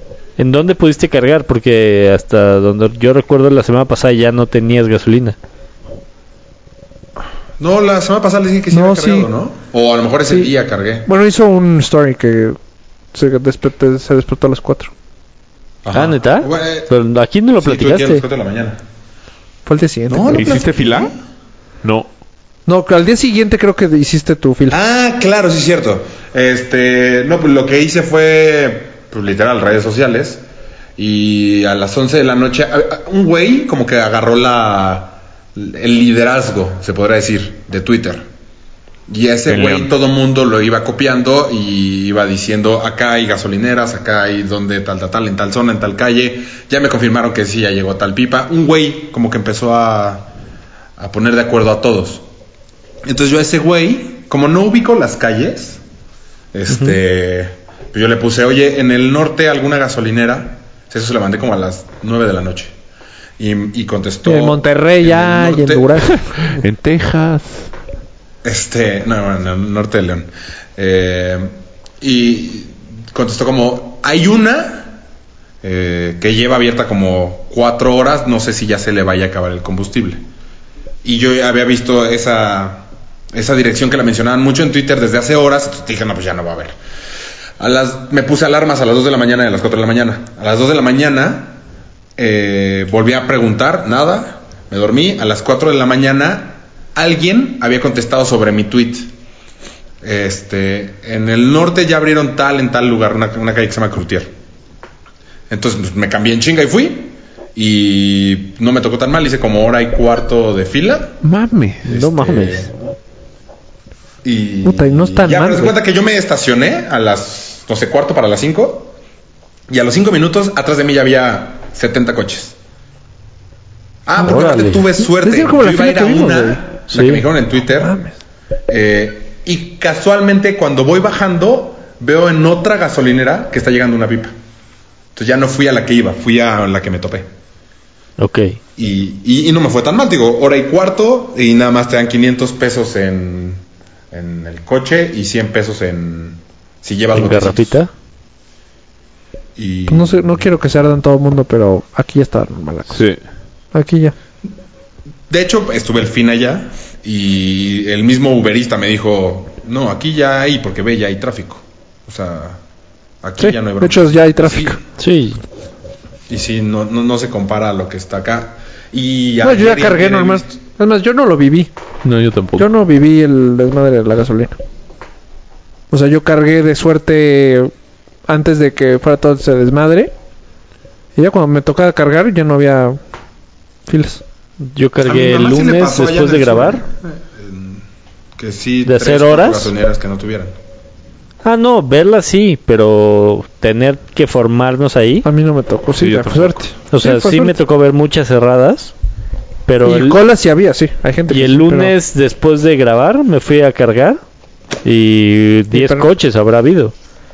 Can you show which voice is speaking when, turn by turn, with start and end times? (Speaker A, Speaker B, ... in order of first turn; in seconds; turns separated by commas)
Speaker A: 0.4-5.4, Speaker B: 7.6-11.1, Speaker C: 8.7-9.3, Speaker C: 11.1-12.6, Speaker C: 13.1-14.9, Speaker B: 15.8-16.9, Speaker A: 15.9-18.2, Speaker B: 17.6-18.8, Speaker C: 19.6-20.5, Speaker B: 20.1-21.1, Speaker D: 20.3-21.1, Speaker C: 22.7-24.8, Speaker B: 24.7-30.4, Speaker B: 31.0-38.2, Speaker B: 39.1-50.3, Speaker D: 39.5-39.9, Speaker B: 51.0-52.2, Speaker B: 53.0-55.8, Speaker B: 56.5-62.7, Speaker B: 63.4-66.2, Speaker C: 64.2-66.2, Speaker D: 66.1-67.7, Speaker B: 68.4-75.0, Speaker B: 75.6-80.2, Speaker B: 81.0-86.8, Speaker B: 87.6-91.6, Speaker B: 92.2-99.1, Speaker B: 100.0-104.3, Speaker B: 105.5-111.2, Speaker D: 111.2-111.8, Speaker A: 111.8-112.7, Speaker B: 111.8-112.7, Speaker B: 114.2-118.9, Speaker C: 114.6-115.7, Speaker B: 119.7-122.5, Speaker B: 124.0-127.9, Speaker A: 124.2-124.8, Speaker C: 125.1-126.6, Speaker A: 126.9-127.2, Speaker C: 127.8-128.1, Speaker B: 128.7-134.3, Speaker B: 135.1-137.3, Speaker A: 138.2-138.6, Speaker B: 138.8-147.8, Speaker A: 147.1-147.9, Speaker B: 149.6-150.4, Speaker C: 149.9-153.0, Speaker D: 152.9-153.2, Speaker C: 153.7-154.1, Speaker B: 155.3-162.6, Speaker B: 163.2-164.8, Speaker C: 163.4-164.8, Speaker A: 165.0-165.4, Speaker B: 166.3-170.5, Speaker C: 169.4-171.7, Speaker D: 172.0-172.7, Speaker C: 172.6-174.6, Speaker C: 175.9-177.7, Speaker C: 178.3-180.1, Speaker C: 181.2-183.0, Speaker C: 183.9-184.2, Speaker A: 184.6-186.8, Speaker B: 185.0-187.8, Speaker B: 188.4-190.6, Speaker A: 188.8-189.7, Speaker A: 191.4-195.3, Speaker C: 195.2-197.6, Speaker D: 195.9-196.6, Speaker A: 196.9-198.9, Speaker A: 199.7-200.2, Speaker C: 199.8-201.9, Speaker A: 201.3-204.2, Speaker A: 204.8-206.9, Speaker C: 205.7-206.1